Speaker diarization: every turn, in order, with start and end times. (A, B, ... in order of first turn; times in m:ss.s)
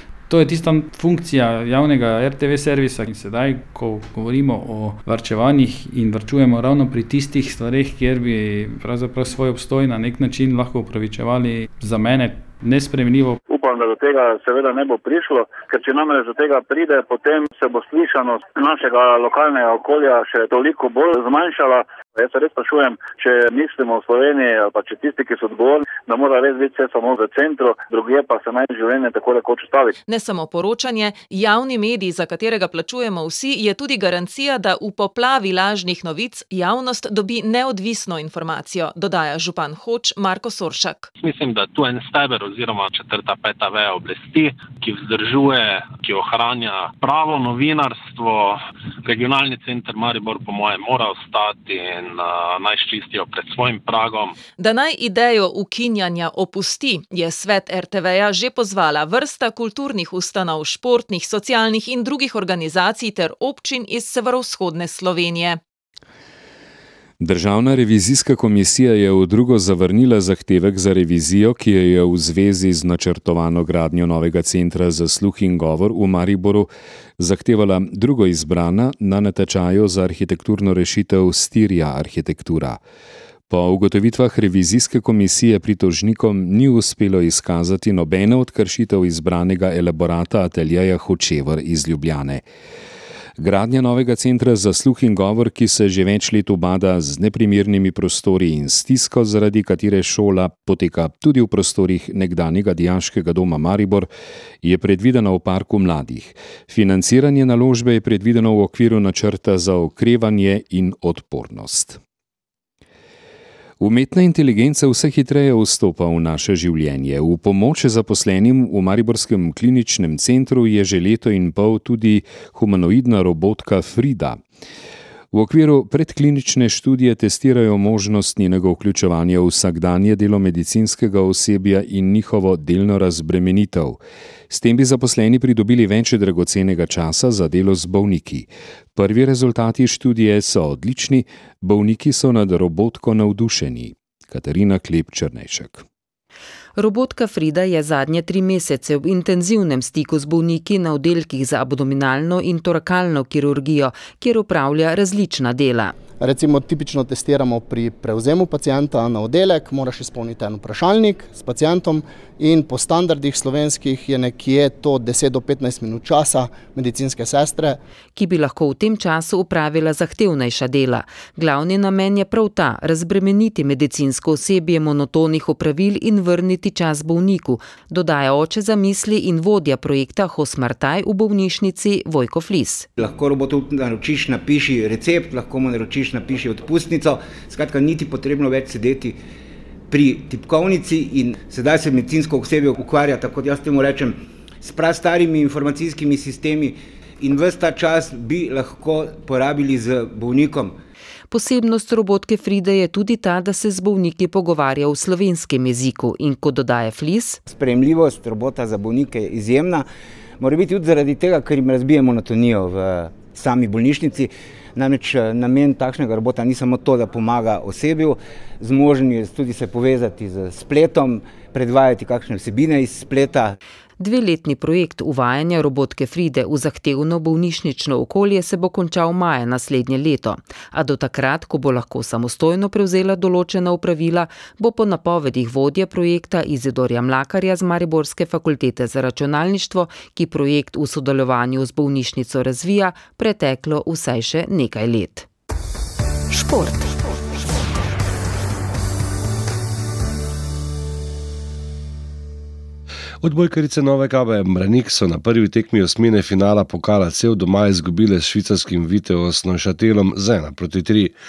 0:00.3-0:13.4 A
0:13.5-0:29.9 B
0:30.1-0:41.1 C
0:41.2-0:54.4 D
0:54.6-1:05.6 C
1:07.2-1:22.8 E
1:23.5-1:32.4 E
1:33.4-1:44.1 E
1:44.6-1:52.0 E
1:53.8-2:04.4 E
2:05.3-2:14.0 E
2:14.5-2:25.8 E
2:26.8-2:36.0 F
2:36.2-2:47.8 G
2:48.1-3:02.9 F
3:03.0-3:09.1 H
3:09.9-3:14.1 H
3:14.6-3:16.7 H
3:17.3-3:20.6 H
3:21.3-3:27.4 F
3:27.6-3:29.7 H
3:30.5-3:34.3 H
3:34.9-3:38.1 H
3:38.6-3:43.4 H
3:44.0-4:05.3 F
4:06.3-4:06.9 F
4:13.2-4:21.1 I